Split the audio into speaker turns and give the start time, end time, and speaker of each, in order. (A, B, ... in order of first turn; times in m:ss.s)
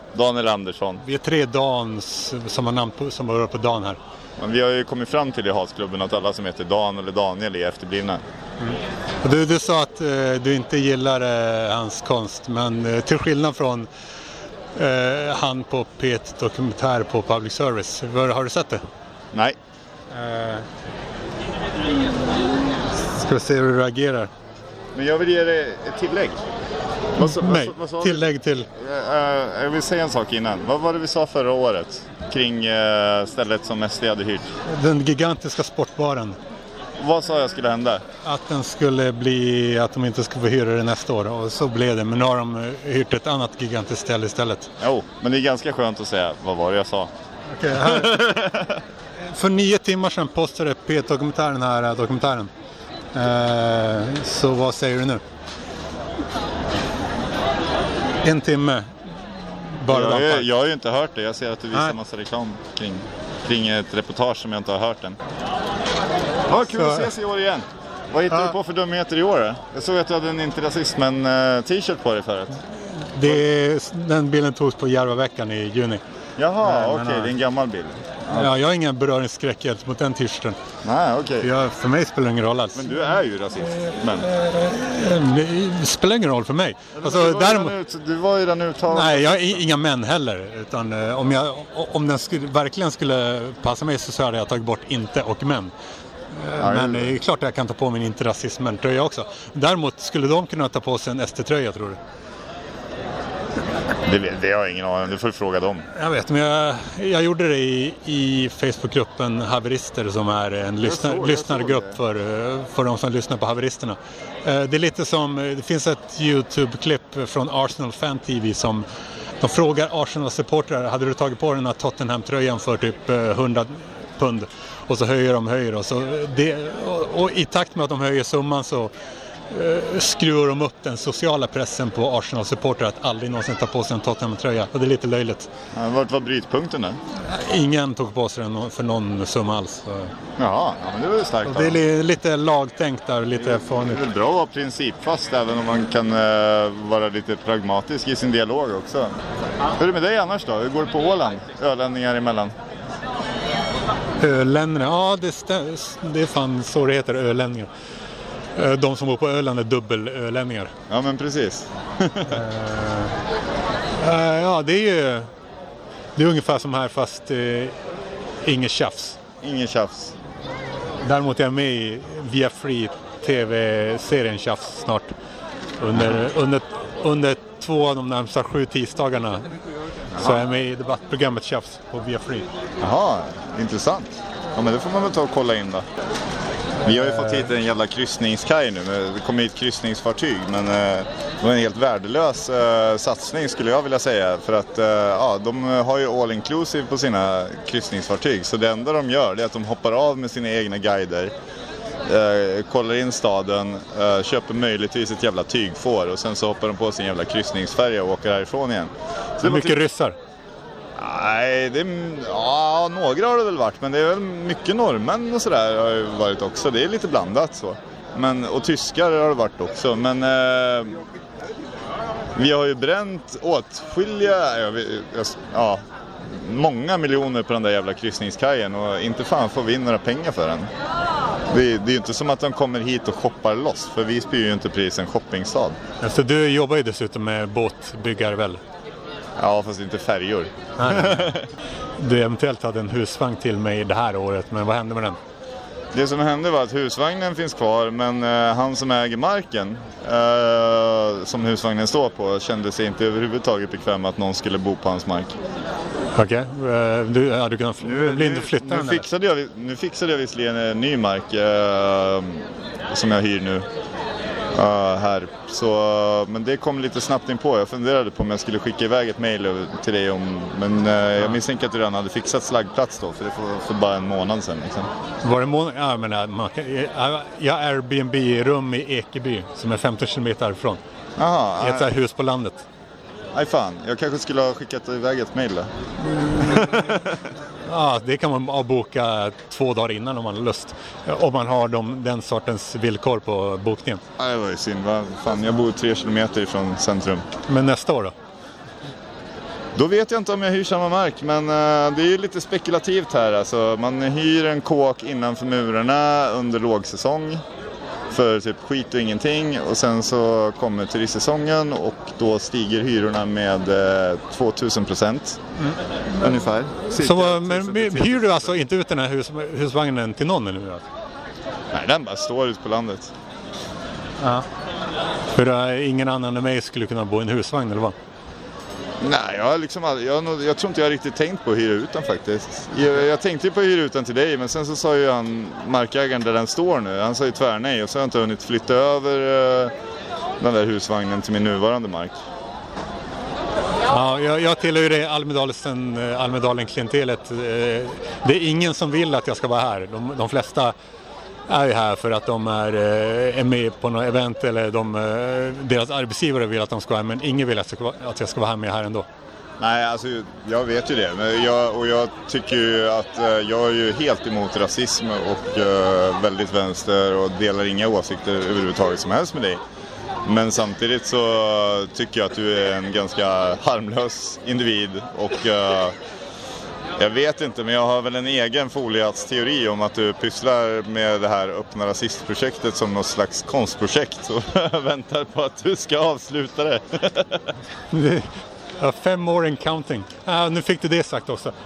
0:00.1-0:01.0 A
0:01.0-0:04.0 B
0:04.4-0:08.2 A
0:08.6-0:13.9 B
0:14.8-0:18.8 B
0:20.1-0:20.6 B
0:23.1-0:24.3 B
0:24.9-0:26.4 A
0:27.2-0:28.2 A
0:27.2-0:28.7 B
0:28.8-0:34.5 A
0:34.7-0:36.4 B
0:37.0-0:38.0 A
0:38.2-0:44.7 B
0:44.8-0:47.1 A
0:47.5-0:48.2 B
0:47.8-0:48.8 A
0:49.3-0:52.5 B
0:53.1-0:55.2 B
0:58.2-0:58.9 B
0:59.5-1:00.5 B
0:59.9-1:05.2 A
1:06.5-1:12.6 A
1:06.7-1:07.1 B
1:08.3-1:08.5 B
1:13.1-1:16.0 B
1:16.4-1:18.5 A
1:16.6-1:17.3 B
1:18.3-1:20.6 B
1:20.8-1:21.5 A
1:21.4-1:23.0 B
1:22.7-1:24.3 A
1:23.6-1:27.7 B
1:27.0-1:29.6 A
1:28.9-1:35.7 B
1:36.3-1:42.0 B
1:36.6-1:37.1 A
1:44.0-1:45.8 A
1:45.9-1:58.8 B
1:50.8-1:52.0 A
1:59.4-2:08.9 B
2:09.5-2:15.5 B
2:15.7-2:17.0 A
2:17.2-2:20.1 B
2:20.4-2:21.8 A
2:21.4-2:24.0 B
2:23.7-2:29.1 A
2:29.7-2:32.5 A
2:34.2-2:37.7 B
2:38.6-2:40.7 B
2:40.9-2:42.4 A
2:42.3-2:43.1 B
2:44.0-2:45.3 B
2:46.2-2:47.8 B
2:48.4-2:49.2 B
2:49.4-2:50.1 A
2:51.0-2:55.1 B
2:55.8-2:59.5 B
3:00.2-3:00.4 A
3:00.2-3:02.5 B
3:02.8-3:05.8 A
3:06.8-3:07.5 B
3:06.8-3:21.3 A
3:22.0-3:29.8 A
3:29.4-3:30.2 B
3:31.0-3:41.0 A
3:42.4-3:50.7 A
3:51.5-3:55.8 A
3:56.0-3:58.6 B
3:59.4-4:01.5 A
4:00.8-4:01.3 B
4:02.0-4:05.2 B
4:05.9-4:15.3 A
4:16.1-4:19.0 B
4:17.8-4:23.7 A
4:24.5-4:34.9 A
4:35.2-4:40.8 B
4:41.2-4:41.9 A
4:41.6-4:42.6 B
4:43.3-4:45.7 A
4:46.0-4:46.7 B
4:46.4-4:47.1 A
4:47.7-4:54.0 B
4:54.2-4:57.3 A
4:57.5-4:58.1 B
4:59.7-5:07.4 A
5:08.1-5:15.4 A
5:16.2-5:18.6 A
5:16.9-5:20.8 B
5:21.7-5:23.1 A
5:24.2-5:24.4 B
5:25.3-5:28.0 B
5:29.0-5:39.7 A
5:40.4-5:42.2 A
5:43.9-5:50.7 B
5:51.5-5:59.1 B
5:59.6-6:09.6 A
6:10.2-6:15.9 A
6:17.0-6:27.4 A
6:27.9-6:28.3 B
6:28.8-6:31.5 B